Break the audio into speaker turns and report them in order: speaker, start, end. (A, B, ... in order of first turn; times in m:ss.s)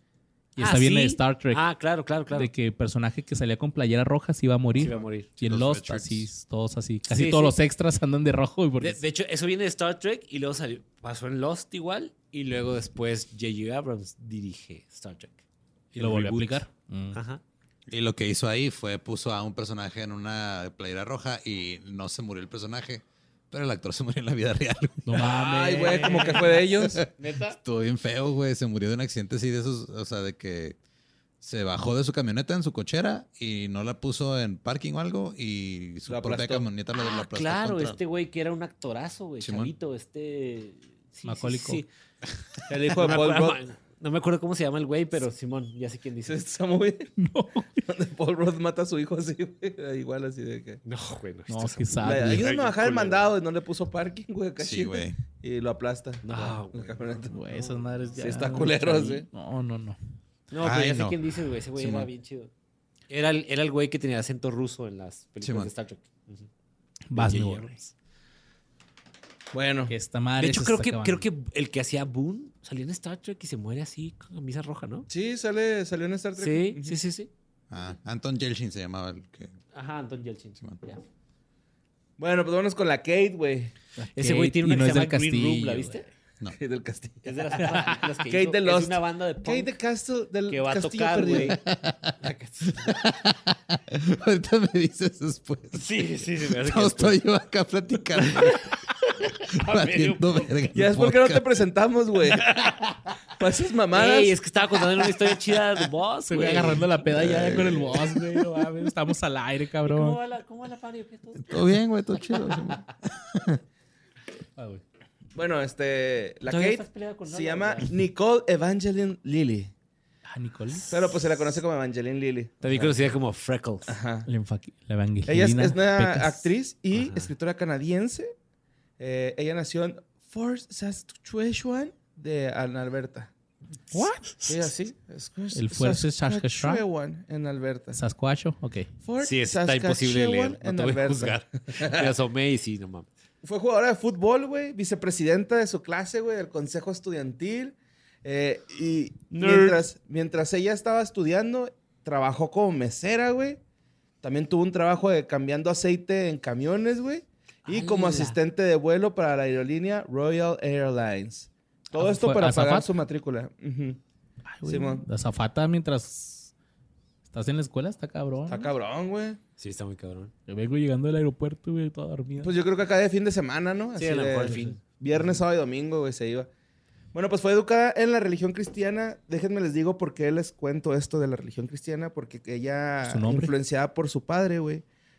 0:00.6-0:01.6 A
0:00.6-0:02.5 B
0:02.3-0:09.0 A
0:04.8-0:05.3 B
0:05.4-0:06.3 C
0:07.1-0:07.6 B
0:08.8-0:15.4 B
0:15.9-0:17.4 B
0:16.0-0:17.2 A
0:17.9-0:25.3 C
0:25.0-0:26.6 A
0:25.2-0:27.1 D
0:25.7-0:27.6 B
0:27.6-0:30.8 C
0:31.4-0:38.0 C
0:36.1-0:36.7 D
0:37.0-0:41.9 B
0:39.4-0:39.7 C
0:41.2-0:41.8 A
0:42.6-0:46.4 B
0:42.7-0:43.6 D
0:46.2-0:47.1 D
0:47.2-0:47.9 A
0:47.9-0:50.8 D
0:50.8-0:53.2 B
0:51.5-0:52.5 A
0:52.0-0:57.4 D
0:54.6-0:55.2 C
0:56.2-0:58.0 B
0:57.3-1:00.0 A
0:58.2-0:59.3 D
1:00.5-1:02.5 B
1:00.6-1:01.2 C
1:01.7-1:02.1 C
1:03.1-1:06.5 B
1:05.4-1:05.7 C
1:07.1-1:07.8 A
1:07.1-1:07.9 B
1:09.5-1:09.9 D
1:09.9-1:11.3 A
1:10.4-1:15.1 B
1:15.1-1:17.0 D
1:16.4-1:17.3 B
1:17.7-1:19.5 C
1:19.7-1:21.0 B
1:22.2-1:23.7 D
1:24.0-1:26.0 A
1:24.2-1:26.1 B
1:26.5-1:31.6 D
1:27.2-1:29.7 B
1:30.5-1:31.6 B
1:31.5-1:32.1 C
1:32.2-1:33.0 B
1:32.6-1:35.9 C
1:35.7-1:37.2 B
1:36.5-1:38.7 C
1:38.2-1:40.8 B
1:39.6-1:41.7 C
1:40.7-1:42.5 D
1:42.3-1:43.1 B
1:43.4-1:44.4 D
1:43.9-1:47.8 B
1:46.3-1:50.2 A
1:46.4-1:48.1 D
1:47.2-1:47.8 C
1:49.9-1:52.8 B
1:51.5-1:53.6 C
1:54.6-1:54.8 A
1:55.4-1:59.7 D
1:56.4-1:58.0 B
2:00.3-2:00.9 A
2:00.9-2:03.1 D
2:00.9-2:01.3 B
2:02.6-2:04.0 B
2:03.9-2:04.3 D
2:04.3-2:06.5 A
2:05.3-2:08.3 D
2:07.0-2:07.3 B
2:09.0-2:13.3 D
2:13.9-2:14.3 A
2:14.4-2:18.0 D
2:15.5-2:16.8 A
2:17.9-2:18.9 A
2:19.0-2:22.1 D
2:19.2-2:23.1 B
2:23.4-2:33.6 D
2:29.3-2:29.8 B
2:34.2-2:44.0 D
2:37.7-2:38.4 B
2:42.0-2:42.9 A
2:44.5-2:46.5 A
2:44.6-2:45.1 D
2:47.3-2:48.7 A
2:48.5-2:49.4 D
2:49.6-2:50.3 B
2:50.5-2:52.5 A
2:52.4-2:56.5 D
2:54.0-2:54.8 B
2:57.1-3:04.8 D
3:03.0-3:03.5 A